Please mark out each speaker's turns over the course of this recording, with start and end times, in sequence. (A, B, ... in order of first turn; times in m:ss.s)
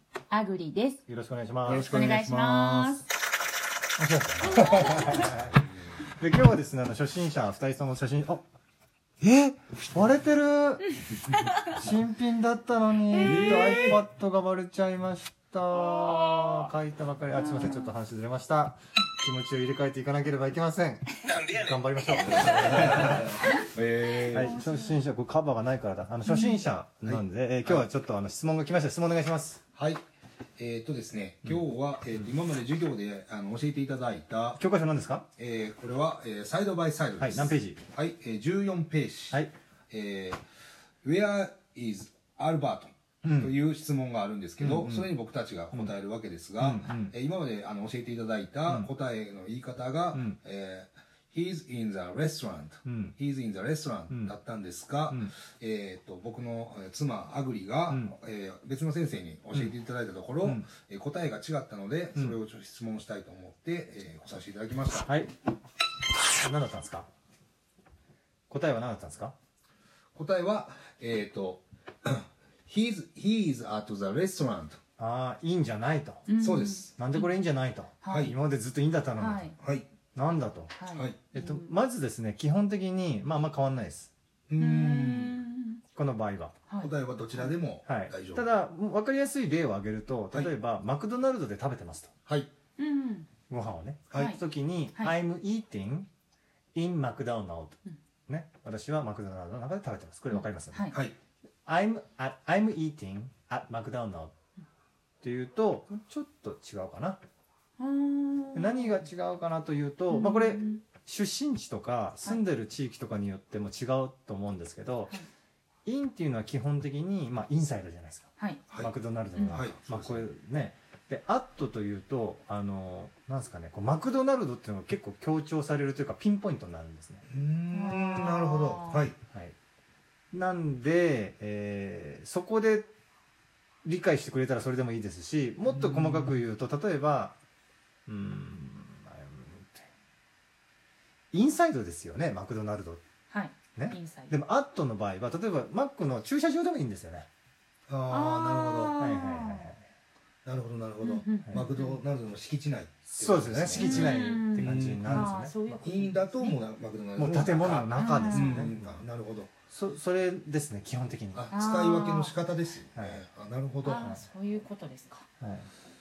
0:00.3-0:01.0 A
0:01.1-0:01.9 B
0:01.7-0:03.0 C
0:01.7-0:03.1 A
0:04.0-0:05.5 B
0:04.6-0:05.6 C
0:04.8-0:05.1 A
0:06.2-0:08.4 B
0:09.2-0:11.0 B
0:11.6-0:23.4 B
0:13.2-0:13.8 C
0:22.5-0:24.6 C
0:24.3-0:29.6 B
0:24.4-0:25.0 A
0:27.1-0:27.9 C
0:29.7-0:30.0 C
0:30.6-0:34.6 C
0:34.6-0:35.3 B
0:35.4-0:40.4 C
0:37.2-0:37.8 B
0:41.0-1:05.1 C
0:43.2-0:43.5 B
0:44.6-0:45.1 B
0:46.6-0:47.1 B
0:52.8-0:53.1 B
1:05.0-1:05.3 B
1:06.3-1:07.1 B
1:08.5-1:09.3 B
1:10.2-1:14.8 C
1:15.0-1:16.3 B
1:16.3-1:17.3 A
1:16.4-1:16.9 C
1:17.0-1:19.5 B
1:18.0-1:18.3 A
1:19.2-1:19.6 A
1:19.6-1:19.9 C
1:20.2-1:20.7 B
1:20.7-1:21.7 A
1:20.9-1:21.2 C
1:21.3-1:24.1 B
1:24.5-1:25.4 C
1:24.6-1:25.8 A
1:25.9-1:26.6 B
1:26.7-1:27.5 A
1:26.8-1:28.4 C
1:27.9-1:32.1 B
1:32.8-1:33.3 A
1:33.5-1:36.1 B
1:34.1-1:34.4 A
1:36.8-1:37.8 B
1:38.3-1:40.9 B
1:40.3-1:41.0 A
1:41.6-1:44.3 B
1:45.2-1:47.2 B
1:47.8-1:49.0 A
1:48.5-1:55.2 B
1:50.1-1:50.8 A
1:55.9-2:07.2 B
1:58.4-1:58.7 A
1:59.4-1:59.6 A
1:59.5-2:00.3 C
2:07.3-2:09.2 C
2:07.7-2:09.1 A
2:09.3-2:09.6 B
2:10.3-2:12.9 B
2:13.8-2:17.4 B
2:15.7-2:16.4 C
2:18.1-2:19.9 B
2:21.3-2:23.0 B
2:23.3-2:24.3 A
2:23.8-2:27.3 B
2:27.9-2:29.0 C
2:28.1-2:29.7 A
2:29.0-2:29.8 B
2:30.4-2:39.5 C
2:31.0-2:32.0 A
2:33.1-2:35.5 B
2:33.7-2:36.6 A
2:37.2-2:39.0 B
2:37.9-2:38.7 A
2:39.7-2:41.5 B
2:41.3-2:44.1 C
2:41.5-2:42.3 A
2:43.0-2:43.2 B
2:43.8-2:45.3 A
2:45.4-2:45.7 B